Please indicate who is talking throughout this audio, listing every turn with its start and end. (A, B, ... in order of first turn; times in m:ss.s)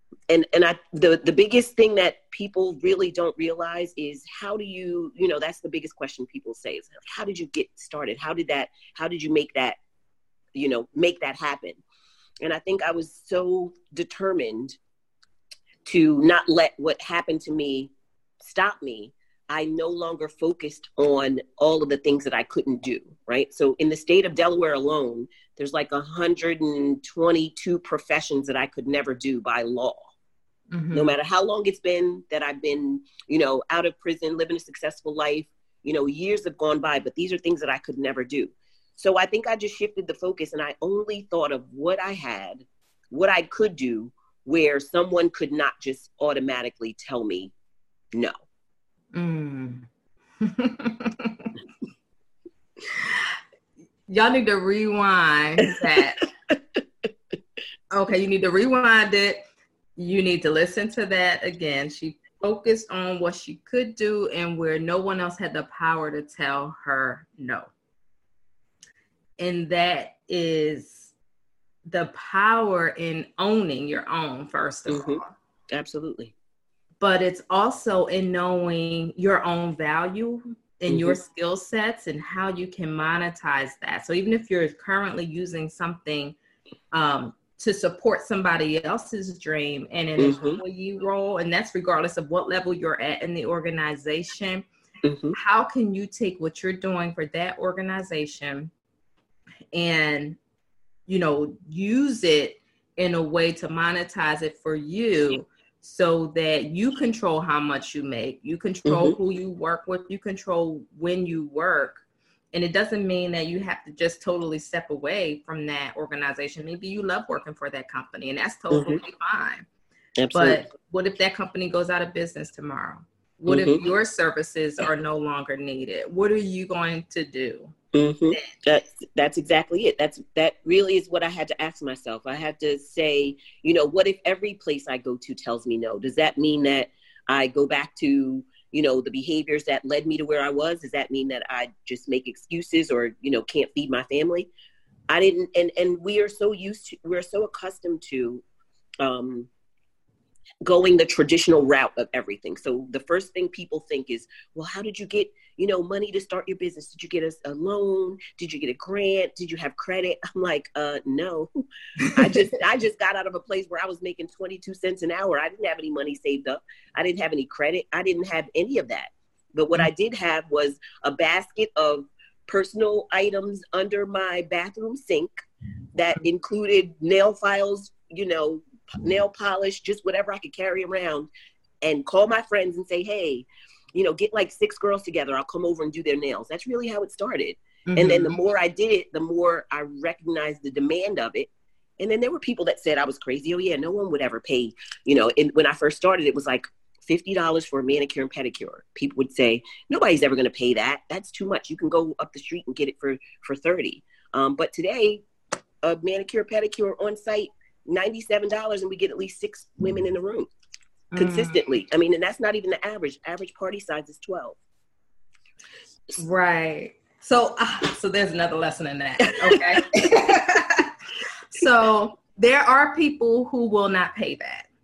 0:00.3-0:09.8 A
0:10.6-0:11.8 A
0:12.4-0:14.8 A
0:15.8-0:30.1 A
0:30.7-0:31.2 B
0:30.9-0:47.5 A
0:49.1-0:49.9 B
0:50.4-0:51.5 B
0:52.9-0:53.4 B
0:54.1-0:56.2 B
0:57.9-0:59.4 B
1:00.0-1:07.7 B
1:09.4-1:11.1 B
1:11.9-1:15.3 B
1:14.9-1:16.3 A
1:17.0-1:26.4 B
1:20.9-1:21.2 A
1:26.9-1:34.7 B
1:30.2-1:30.6 A
1:35.0-1:35.4 A
1:35.3-1:38.7 B
1:39.7-1:40.4 B
1:41.1-1:52.0 B
1:48.8-1:49.2 A
1:52.5-1:59.7 B
1:58.7-1:59.0 A
2:00.2-2:00.6 A
2:00.3-2:07.8 B
2:03.5-2:03.8 A
2:07.9-2:24.5 A
2:25.1-2:28.4 A
2:29.0-2:29.5 A
2:30.6-2:41.5 A
2:42.1-2:55.4 A
2:56.0-3:01.3 A
3:01.8-3:25.2 A
3:07.9-3:08.4 B
3:25.8-3:30.5 A
3:31.1-3:31.6 B
3:31.2-3:34.6 A
3:36.2-3:40.9 B
3:39.2-3:39.6 A
3:41.5-3:44.7 B